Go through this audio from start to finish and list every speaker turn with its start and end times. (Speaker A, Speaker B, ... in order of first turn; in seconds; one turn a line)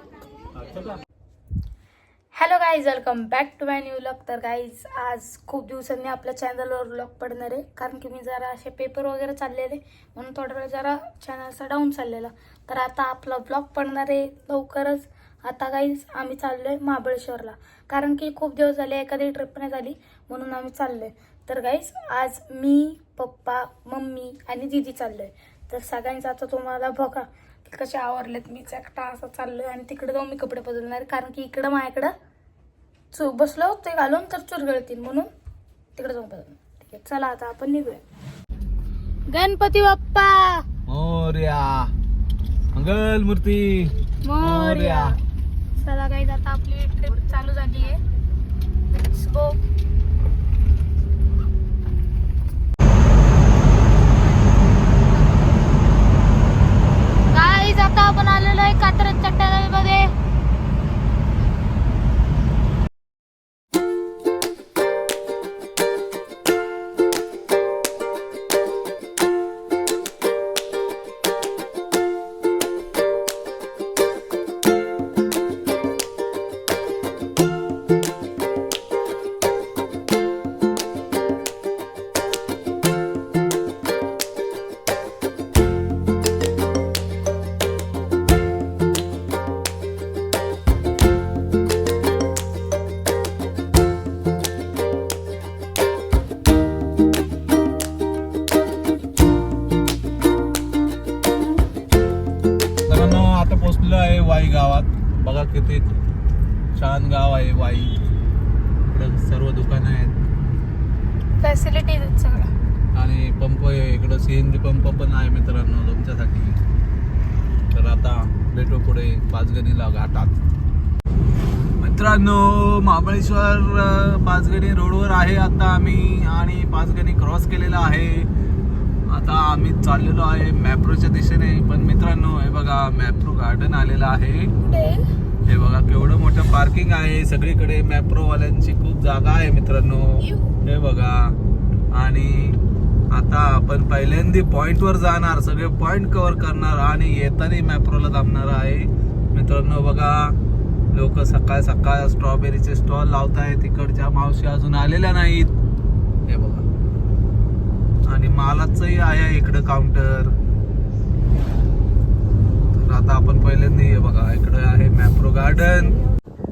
Speaker A: 0.6-0.9
Speaker B: 2.3-32.1
Speaker B: 33.1-35.3
Speaker B: 36.0-38.0
Speaker B: 39.3-40.6
Speaker A: 40.9-41.9
Speaker A: 42.7-45.1
Speaker B: 44.2-45.1
Speaker B: 45.8-48.0
Speaker B: 48.9-49.6
Speaker B: 57.3-60.1
Speaker A: 102.8-106.0
Speaker A: 106.8-108.0
Speaker A: 108.9-110.1
Speaker B: 111.4-112.5
Speaker A: 112.9-116.6
Speaker A: 117.7-120.3
Speaker A: 121.8-128.3
Speaker A: 129.1-134.5
Speaker B: 134.6-135.0
Speaker A: 135.4-141.3
Speaker B: 140.2-140.5
Speaker A: 141.9-142.6
Speaker A: 143.1-150.3
Speaker A: 150.9-155.5
Speaker A: 156.3-156.6
Speaker A: 158.1-160.3
Speaker A: 162.7-166.0